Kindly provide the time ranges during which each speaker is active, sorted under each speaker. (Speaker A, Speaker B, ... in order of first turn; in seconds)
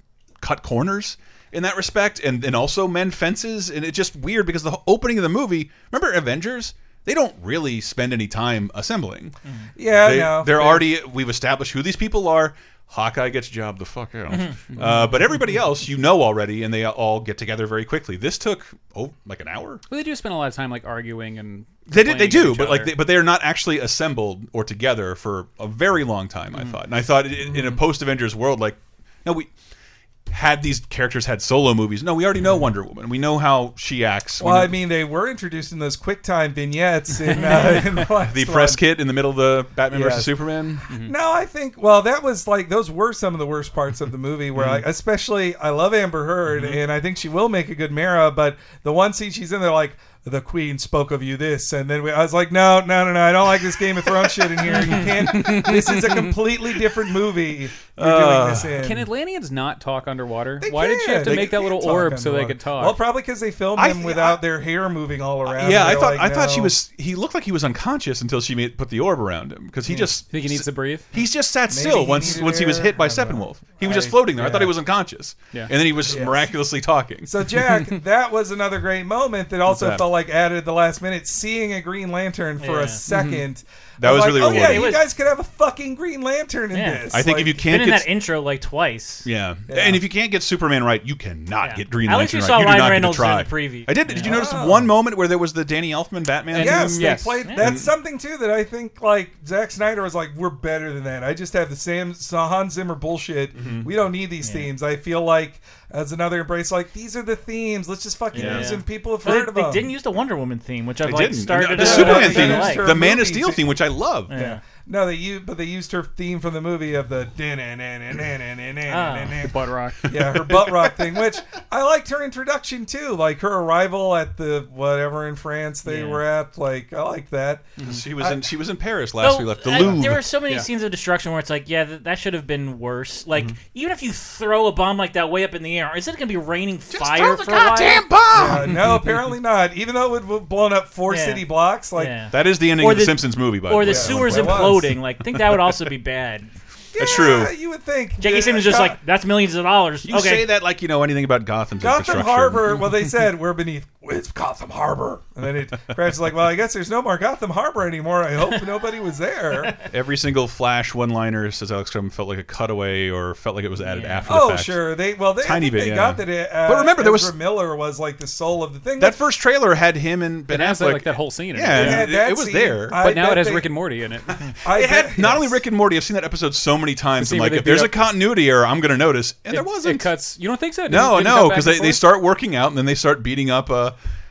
Speaker A: 0.4-9.3, 9.9-19.8, 21.9-29.5, 30.3-34.8, 38.0-40.9, 44.6-44.8, 58.0-58.8, 61.3-61.5, 63.8-64.4, 65.5-77.3, 79.7-80.1, 84.0-85.0, 87.1-88.1, 89.2-97.9, 103.5-103.9, 108.4-108.7, 111.0-114.3, 120.2-120.7, 127.8-130.2, 136.9-138.8, 142.3-144.9, 147.0-147.5, 150.1-152.8, 159.8-164.9, 165.4-167.3, 169.0-173.1, 174.5-180.2, 180.9-184.0
Speaker B: 9.8-10.9, 27.4-27.8, 34.4-38.8, 39.9-59.1, 60.6-66.8, 71.7-74.7, 76.1-76.5, 77.2-87.7, 89.7-90.0, 94.2-94.9, 96.6-109.9, 111.8-113.7, 114.3-128.4, 138.3-142.1, 143.8-144.9, 146.9-149.0, 151.8-159.7, 164.3-169.2, 171.7-173.7, 174.6-175.6
Speaker C: 19.9-22.9, 37.3-37.9, 40.9-41.1, 54.8-56.2, 58.8-63.0, 70.3-71.1, 96.5-97.5, 119.4-120.2, 170.5-172.2, 173.0-174.5, 177.2-178.0, 179.5-182.1
Speaker D: 82.6-83.0, 84.5-85.0, 86.7-89.3, 91.6-94.4, 104.4-104.7, 108.3-112.9, 114.3-114.6, 118.9-119.4, 125.8-126.2, 129.2-138.1, 141.1-146.5, 148.2-150.5, 163.8-164.3